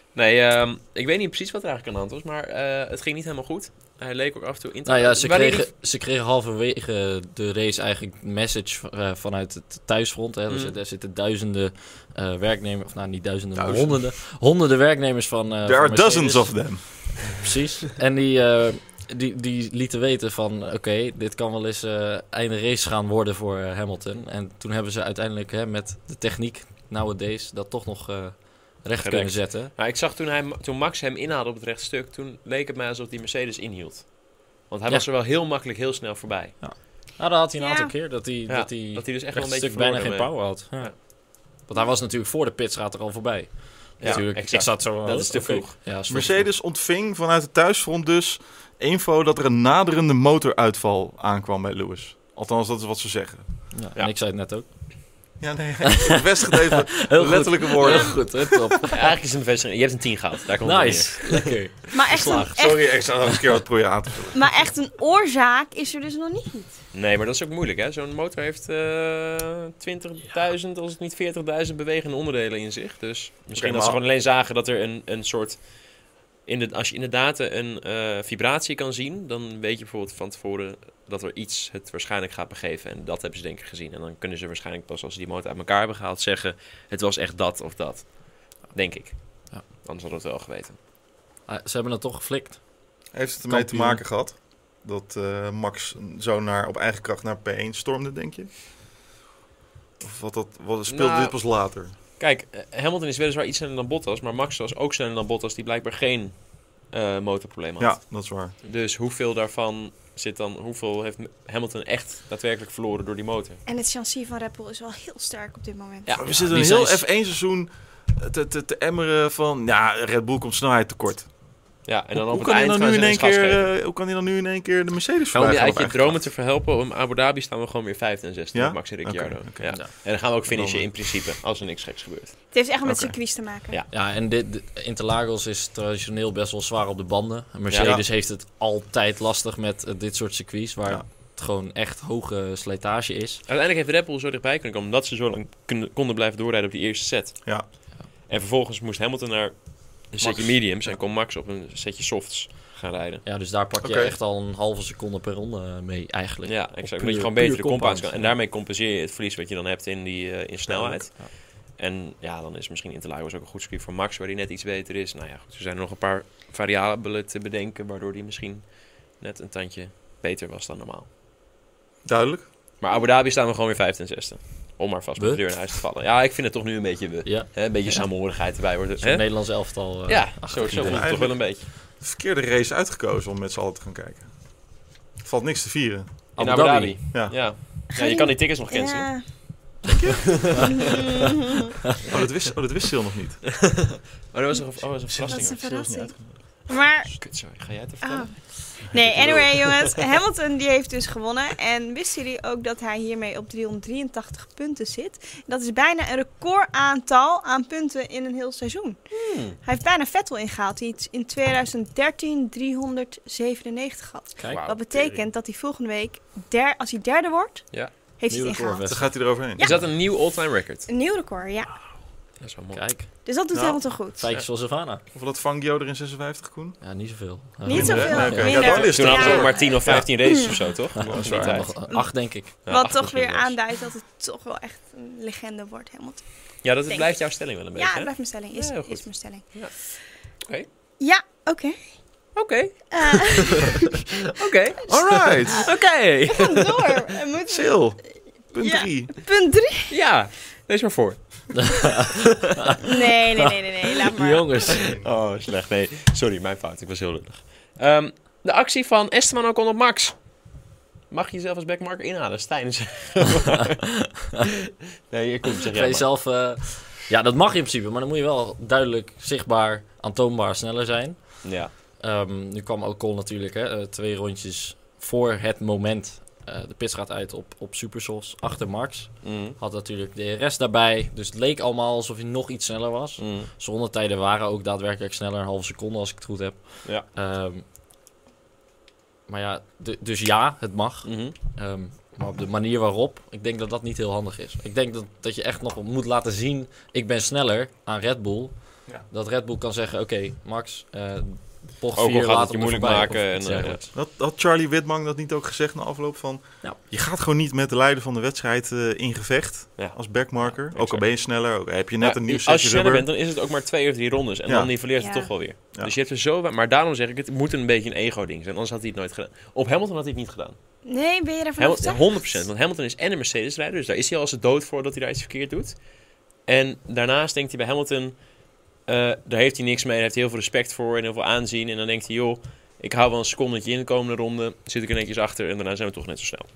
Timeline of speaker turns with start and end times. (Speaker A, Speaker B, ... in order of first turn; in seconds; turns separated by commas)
Speaker A: 0.1-5.7, Speaker B: 4.9-29.7, Speaker A: 10.5-10.7, Speaker C: 13.7-13.9, Speaker C: 15.7-17.2, Speaker A: 29.0-36.6, Speaker B: 36.6-46.5, Speaker D: 37.6-37.9, Speaker A: 38.5-40.9, Speaker A: 44.0-45.8, Speaker C: 46.1-53.5, Speaker B: 53.7-55.2, Speaker C: 55.4-58.5, Speaker B: 56.0-59.0, Speaker A: 58.9-61.5, Speaker B: 60.6-63.4, Speaker D: 61.9-62.9, Speaker C: 62.5-64.5, Speaker D: 64.3-66.8, Speaker A: 66.9-75.9, Speaker C: 73.5-74.0, Speaker A: 76.4-90.8, Speaker B: 91.5-92.9, Speaker C: 93.1-98.5, Speaker B: 93.5-94.0, Speaker C: 100.0-101.9, Speaker A: 100.9-101.4, Speaker A: 102.2-113.6, Speaker C: 107.8-108.5, Speaker D: 113.7-116.2, Speaker A: 116.1-117.1, Speaker C: 116.2-121.3, Speaker A: 121.8-123.7, Speaker C: 122.1-126.3, Speaker A: 125.3-132.4, Speaker C: 128.5-129.8, Speaker C: 130.4-130.9, Speaker D: 132.5-133.8, Speaker C: 132.8-133.2, Speaker B: 133.9-143.4, Speaker A: 137.7-138.0, Speaker A: 143.5-147.7, Speaker A: 148.3-153.2, Speaker C: 150.2-151.0, Speaker B: 153.2-158.3, Speaker C: 153.8-154.2, Speaker A: 156.5-171.1, Speaker C: 160.7-161.1, Speaker C: 172.1-172.5, Speaker A: 172.8-181.7, Speaker B: 175.2-175.4, Speaker B: 177.2-178.1, Speaker B: 179.0-181.1, Speaker C: 180.8-184.3, Speaker C: 185.2-186.2, Speaker B: 186.4-187.0, Speaker A: 186.4-189.4, Speaker C: 187.1-187.4, Speaker D: 187.9-189.5, Speaker C: 189.9-190.3, Speaker A: 190.3-191.0, Speaker D: 190.7-191.7, Speaker C: 192.0-193.5, Speaker A: 193.5-195.8, Speaker C: 195.1-196.3, Speaker D: 195.3-196.1, Speaker D: 196.7-197.1, Speaker A: 197.1-200.1, Speaker D: 198.0-209.0, Speaker A: 209.1-209.6, Speaker D: 209.6-219.0, Speaker B: 214.4-214.6, Speaker A: 214.5-215.2, Speaker B: 218.3-219.1, Speaker C: 218.9-219.7, Speaker D: 219.6-219.9, Speaker A: 219.6-220.9, Speaker D: 220.9-221.8, Speaker A: 222.4-222.9, Speaker B: 222.7-223.1, Speaker D: 223.2-224.2, Speaker B: 224.1-225.0, Speaker C: 225.1-226.8, Speaker B: 226.8-228.8, Speaker D: 227.7-230.6, Speaker C: 227.7-231.7, Speaker A: 228.1-231.8, Speaker B: 231.0-232.5, Speaker D: 231.9-239.6, Speaker A: 232.6-233.6, Speaker A: 236.6-239.7, Speaker D: 241.0-241.8, Speaker A: 242.4-247.1, Speaker D: 242.9-243.8, Speaker C: 244.9-245.7, Speaker D: 244.9-245.7, Speaker D: 246.3-248.0, Speaker C: 247.5-248.0, Speaker C: 248.5-249.1, Speaker D: 248.6-249.9, Speaker A: 249.9-251.9, Speaker B: 251.6-252.1, Speaker D: 252.8-254.7, Speaker B: 254.1-254.9, Speaker C: 254.7-255.1, Speaker A: 255.0-260.2, Speaker A: 261.1-264.5, Speaker A: 265.1-266.1, Speaker B: 265.7-287.6, Speaker A: 271.4-271.7, Speaker A: 279.2-279.6, Speaker A: 283.2-283.5, Speaker B: 289.3-303.9, Speaker A: 291.1-291.4, Speaker A: 302.0-303.8, Speaker C: 303.9-313.1, Speaker A: 309.8-311.1, Speaker A: 312.0-320.6, Speaker C: 314.5-314.7, Speaker D: 315.0-315.3, Speaker D: 320.9-322.1, Speaker A: 321.6-325.8, Speaker A: 326.5-328.2, Speaker A: 328.9-336.5